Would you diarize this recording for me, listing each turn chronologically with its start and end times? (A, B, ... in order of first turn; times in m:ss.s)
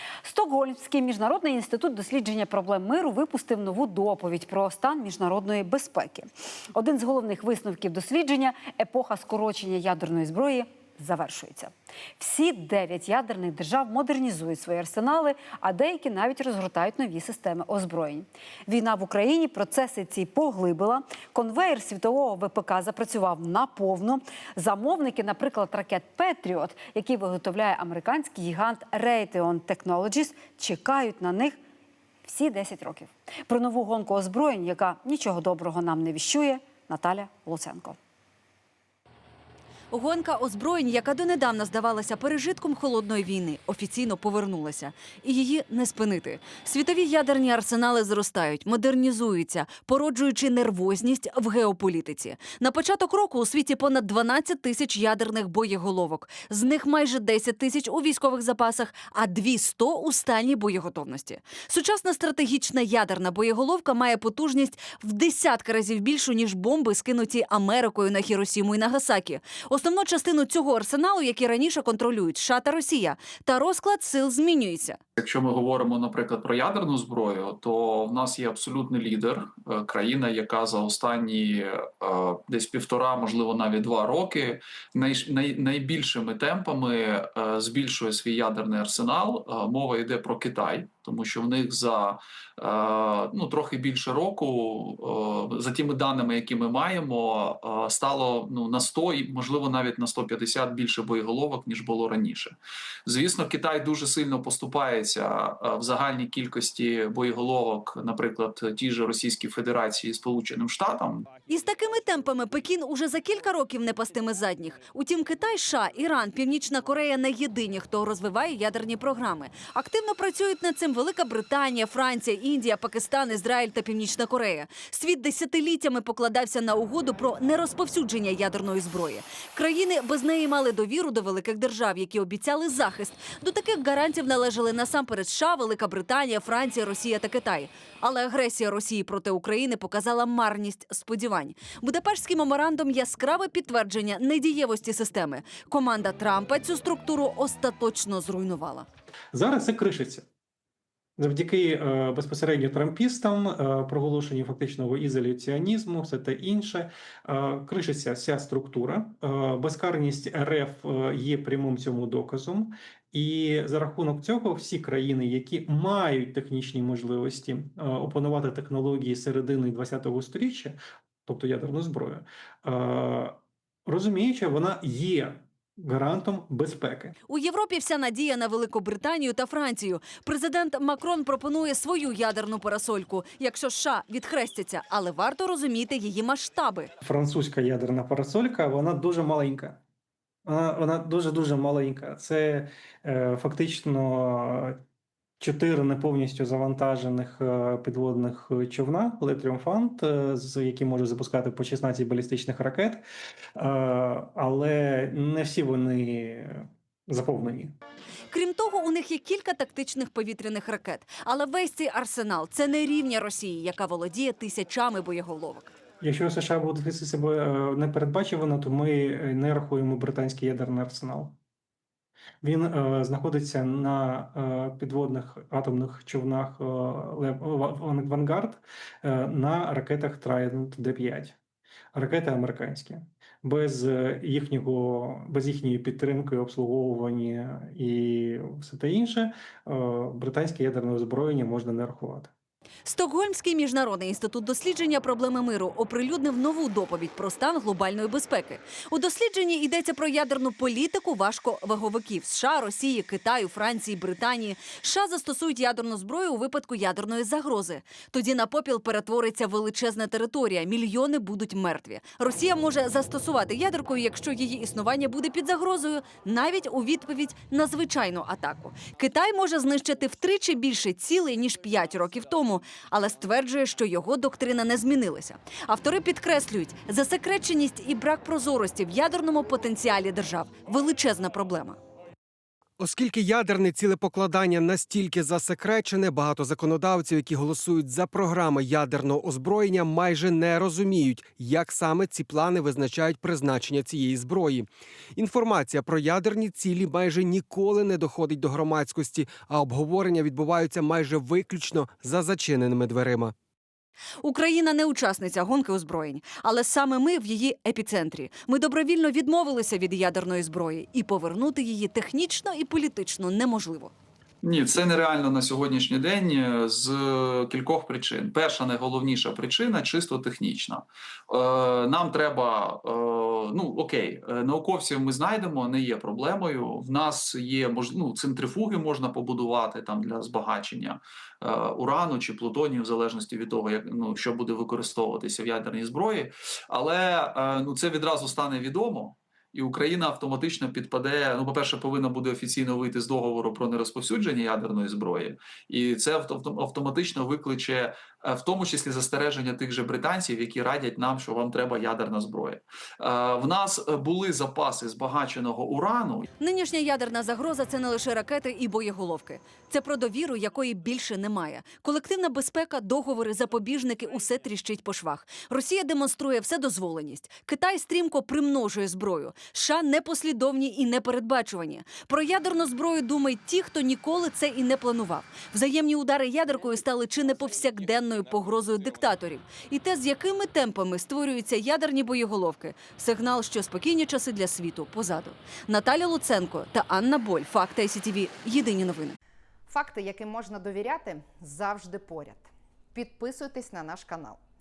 0:00.2-0:31.6 A
0:32.2-0:38.0 A
0:39.9-1:15.0 B
1:15.2-1:51.3 C
1:51.5-2:28.9 B
2:29.3-2:30.3 D
2:31.2-2:57.2 D
2:57.3-3:06.9 B
3:07.0-3:09.8 D
3:10.5-3:14.8 D
3:15.4-3:23.0 D
3:23.6-3:27.7 D
3:28.3-3:35.7 B
3:36.0-3:41.4 D
3:42.4-3:51.4 D
3:51.9-4:02.3 D
4:02.8-4:41.8 B
4:42.8-5:03.3 E
5:04.2-5:13.9 B
5:14.4-5:56.3 C
5:56.4-6:29.2 B
6:29.7-6:34.4 F